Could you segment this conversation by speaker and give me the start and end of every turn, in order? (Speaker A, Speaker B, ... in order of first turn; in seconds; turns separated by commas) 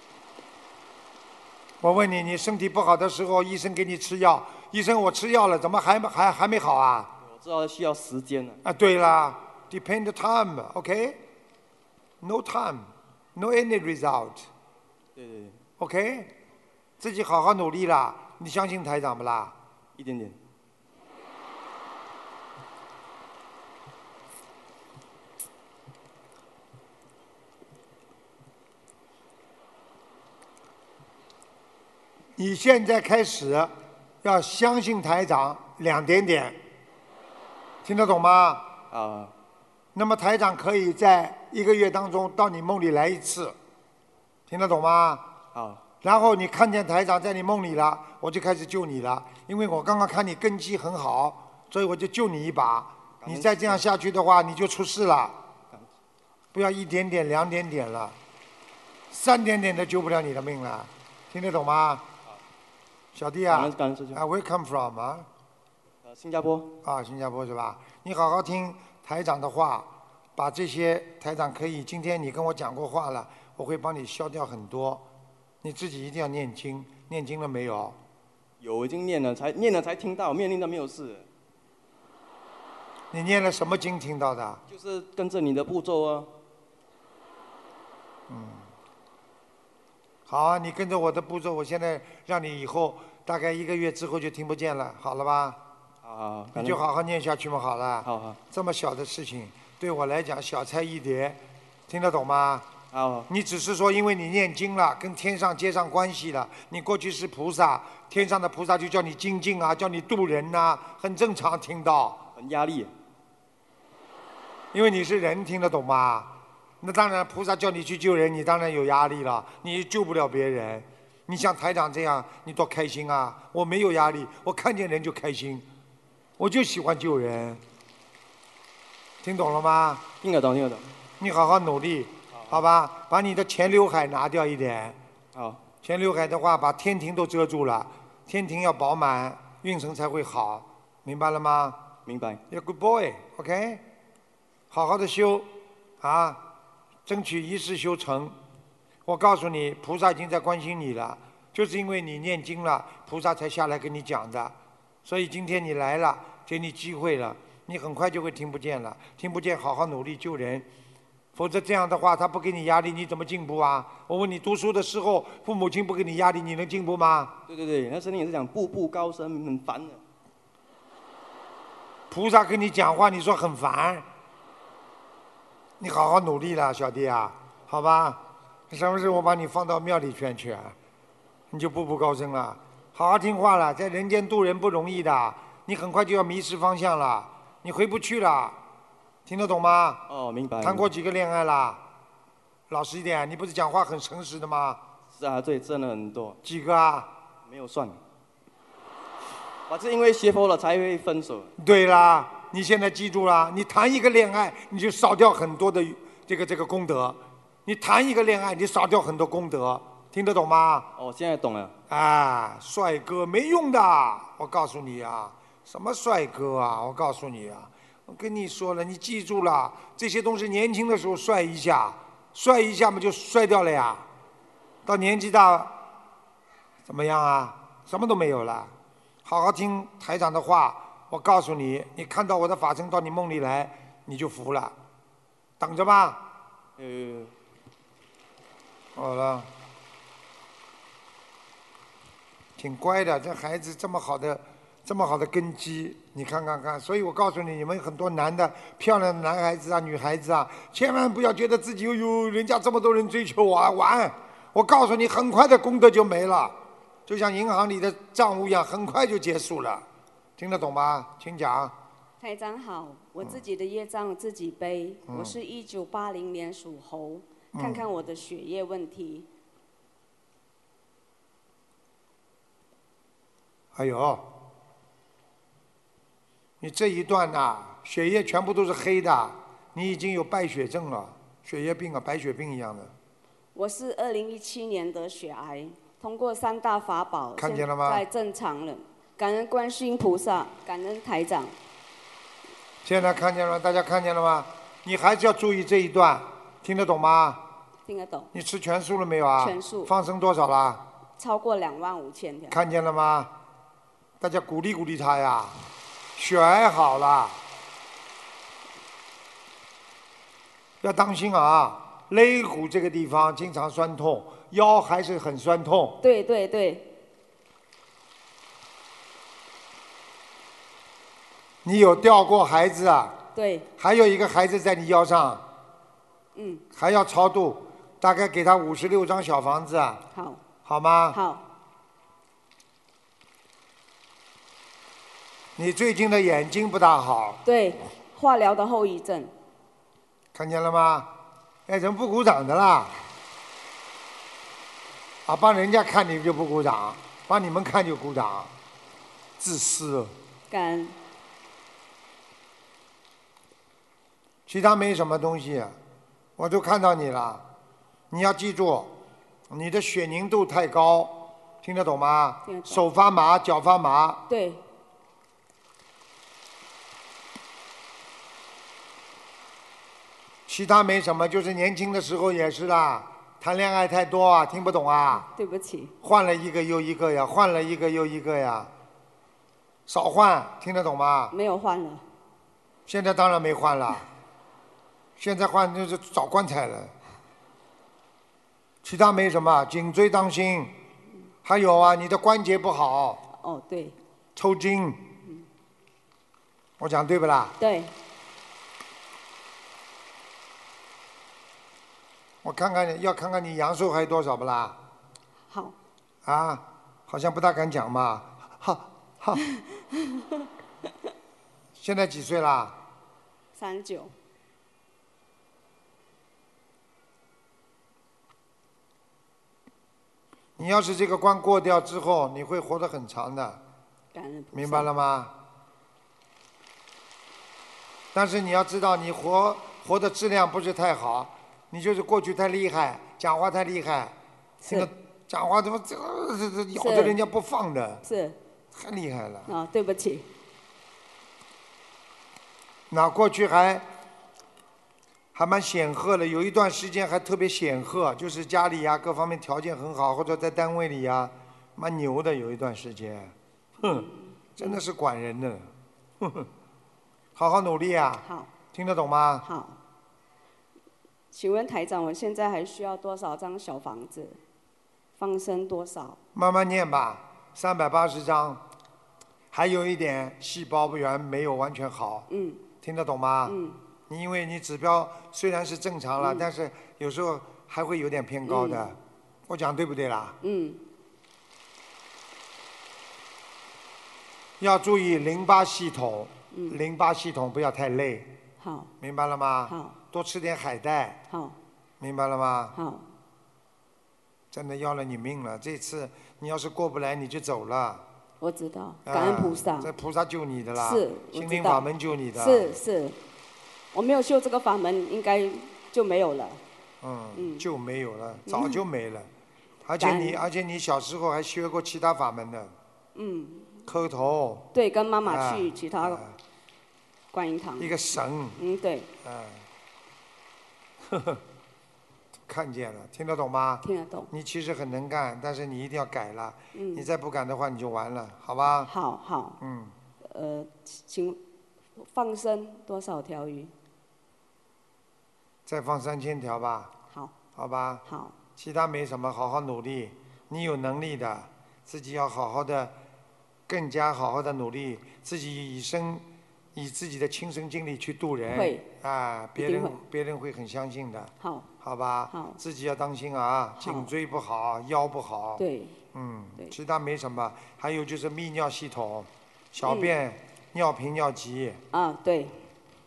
Speaker A: 1.8-7.1, Speaker B: 7.2-8.6, Speaker A: 8.6-11.2, Speaker A: 12.2-14.5, Speaker B: 15.2-15.6, Speaker A: 15.8-16.3, Speaker A: 17.0-19.5, Speaker B: 20.0-20.4, Speaker A: 32.4-36.6, Speaker A: 37.9-38.7, Speaker B: 38.9-39.3, Speaker A: 40.0-43.6, Speaker A: 44.5-45.3, Speaker B: 45.5-45.8, Speaker A: 46.0-55.4, Speaker B: 53.2-53.9, Speaker A: 56.5-58.2, Speaker A: 59.1-62.1, Speaker A: 63.1-65.3, Speaker B: 63.5-64.2, Speaker B: 66.0-66.7, Speaker A: 66.8-75.0, Speaker A: 75.6-78.0, Speaker B: 78.6-81.3, Speaker A: 83.1-84.6, Speaker B: 84.7-86.3, Speaker A: 88.3-88.7, Speaker A: 90.3-95.6, Speaker B: 96.0-96.8, Speaker A: 96.5-102.7, Speaker B: 98.0-98.4, Speaker B: 102.9-103.3, Speaker A: 103.3-112.2, Speaker B: 112.4-112.9, Speaker A: 114.7-125.7, Speaker A: 126.4-127.6, Speaker A: 129.2-130.0, Speaker B: 130.2-130.9, Speaker A: 131.2-135.0, Speaker B: 132.3-132.6, Speaker B: 135.3-135.6, Speaker A: 135.8-141.8, Speaker B: 142.1-142.4, Speaker A: 142.5-143.8, Speaker A: 144.7-145.5, Speaker A: 146.0-146.4, Speaker A: 147.1-148.3, Speaker A: 149.1-160.7, Speaker A: 161.3-167.3, Speaker B: 167.5-170.0, Speaker A: 172.1-174.1, Speaker A: 175.8-180.8, Speaker A: 181.5-188.6, Speaker A: 189.3-190.0, Speaker B: 190.1-190.9, Speaker A: 190.6-191.8, Speaker A: 192.7-194.8, Speaker B: 195.1-196.4, Speaker A: 196.4-197.1, Speaker B: 197.5-198.0, Speaker B: 199.7-201.5, Speaker A: 201.6-210.9, Speaker B: 211.0-211.7, Speaker A: 211.9-224.1, Speaker A: 224.8-225.8, Speaker A: 226.9-228.7, Speaker A: 229.2-234.8, Speaker A: 235.6-236.3, Speaker B: 236.8-237.3, Speaker A: 239.0-239.5, Speaker A: 242.6-256.6, Speaker A: 257.1-259.9, Speaker A: 260.4-261.8, Speaker C: 262.2-269.3, Speaker A: 265.1-265.4, Speaker A: 267.5-267.8, Speaker A: 273.7-274.3, Speaker A: 276.6-282.9, Speaker C: 283.6-291.5, Speaker A: 287.4-288.0, Speaker A: 292.9-297.4, Speaker C: 297.9-298.3, Speaker A: 298.3-300.8, Speaker C: 299.4-299.9, Speaker C: 301.2-302.6, Speaker A: 302.5-303.3, Speaker A: 304.2-305.6, Speaker A: 306.2-307.4, Speaker A: 310.8-316.0, Speaker C: 316.0-316.9, Speaker A: 321.6-323.2, Speaker C: 323.4-323.7, Speaker A: 323.8-325.4, Speaker C: 326.4-326.6, Speaker A: 326.8-330.0, Speaker C: 330.1-330.4, Speaker A: 330.6-331.2, Speaker C: 331.1-331.4, Speaker A: 335.6-337.4, Speaker C: 337.4-339.3, Speaker A: 340.3-341.1, Speaker A: 341.7-342.9, Speaker A: 345.3-348.5, Speaker A: 349.4-350.1, Speaker C: 350.5-351.0, Speaker A: 354.5-355.8, Speaker A: 356.4-357.4, Speaker A: 358.1-358.9, Speaker A: 359.5-364.2, Speaker C: 362.4-362.8, Speaker C: 364.3-364.6, Speaker A: 370.5-375.3, Speaker C: 375.2-375.9, Speaker A: 376.0-378.7, Speaker A: 379.9-381.3, Speaker C: 381.3-382.0, Speaker A: 382.9-384.1, Speaker A: 385.2-386.9, Speaker A: 388.8-390.7, Speaker A: 391.4-393.2, Speaker C: 393.3-394.0, Speaker A: 394.4-395.0, Speaker A: 396.8-397.6, Speaker C: 397.6-397.9, Speaker A: 402.4-404.8, Speaker C: 405.5-405.8, Speaker A: 406.2-409.4, Speaker A: 411.8-412.8, Speaker C: 413.6-414.1, Speaker A: 420.6-423.6, Speaker C: 424.1-424.9, Speaker A: 424.5-425.3, Speaker A: 428.1-434.1, Speaker C: 434.6-434.9, Speaker A: 434.7-438.0, Speaker C: 436.8-437.2, Speaker C: 438.0-438.4, Speaker A: 438.7-439.5, Speaker C: 439.5-440.3, Speaker A: 442.9-443.9, Speaker A: 445.3-454.1, Speaker C: 453.8-454.8, Speaker A: 454.6-455.7, Speaker A: 456.2-456.5, Speaker A: 457.4-459.4, Speaker C: 458.2-458.5, Speaker C: 459.4-459.8, Speaker C: 461.3-464.4, Speaker C: 465.2-466.2, Speaker A: 466.4-468.6, Speaker A: 469.5-472.3, Speaker C: 472.3-472.7, Speaker A: 472.8-473.6, Speaker C: 473.4-473.8, Speaker A: 474.1-479.0, Speaker C: 476.2-476.5, Speaker C: 478.5-478.9, Speaker A: 479.5-480.4, Speaker C: 480.4-480.8, Speaker A: 484.6-488.3, Speaker C: 486.5-486.8, Speaker C: 488.6-488.9, Speaker A: 489.0-491.2, Speaker C: 489.7-489.9, Speaker C: 491.3-491.6, Speaker A: 492.0-492.8, Speaker C: 492.7-493.1, Speaker A: 494.5-498.0, Speaker C: 498.4-499.9, Speaker A: 499.1-502.8, Speaker C: 500.8-503.2, Speaker C: 503.9-506.6, Speaker A: 507.0-509.3, Speaker C: 507.4-507.7, Speaker C: 508.5-508.9, Speaker A: 509.9-512.7, Speaker C: 510.0-510.4, Speaker C: 513.1-513.8, Speaker A: 513.9-514.7, Speaker C: 514.7-516.2, Speaker A: 515.3-516.3, Speaker C: 517.3-518.0, Speaker A: 517.8-518.6, Speaker C: 518.6-519.1, Speaker A: 519.2-519.6, Speaker A: 521.1-521.4, Speaker A: 522.5-528.9, Speaker C: 523.8-524.3, Speaker C: 526.7-527.1, Speaker C: 528.8-529.6, Speaker A: 529.6-529.9, Speaker C: 530.2-531.4, Speaker C: 532.0-533.7, Speaker A: 535.7-536.9, Speaker A: 537.6-538.0, Speaker C: 538.0-538.4, Speaker A: 538.6-543.0, Speaker A: 543.7-546.2, Speaker A: 546.8-555.6, Speaker C: 548.5-548.9, Speaker C: 549.6-550.0, Speaker C: 551.4-551.7, Speaker C: 552.3-552.6, Speaker C: 553.8-554.1, Speaker C: 555.6-556.0, Speaker A: 556.1-561.8, Speaker C: 559.8-560.1, Speaker C: 561.9-562.6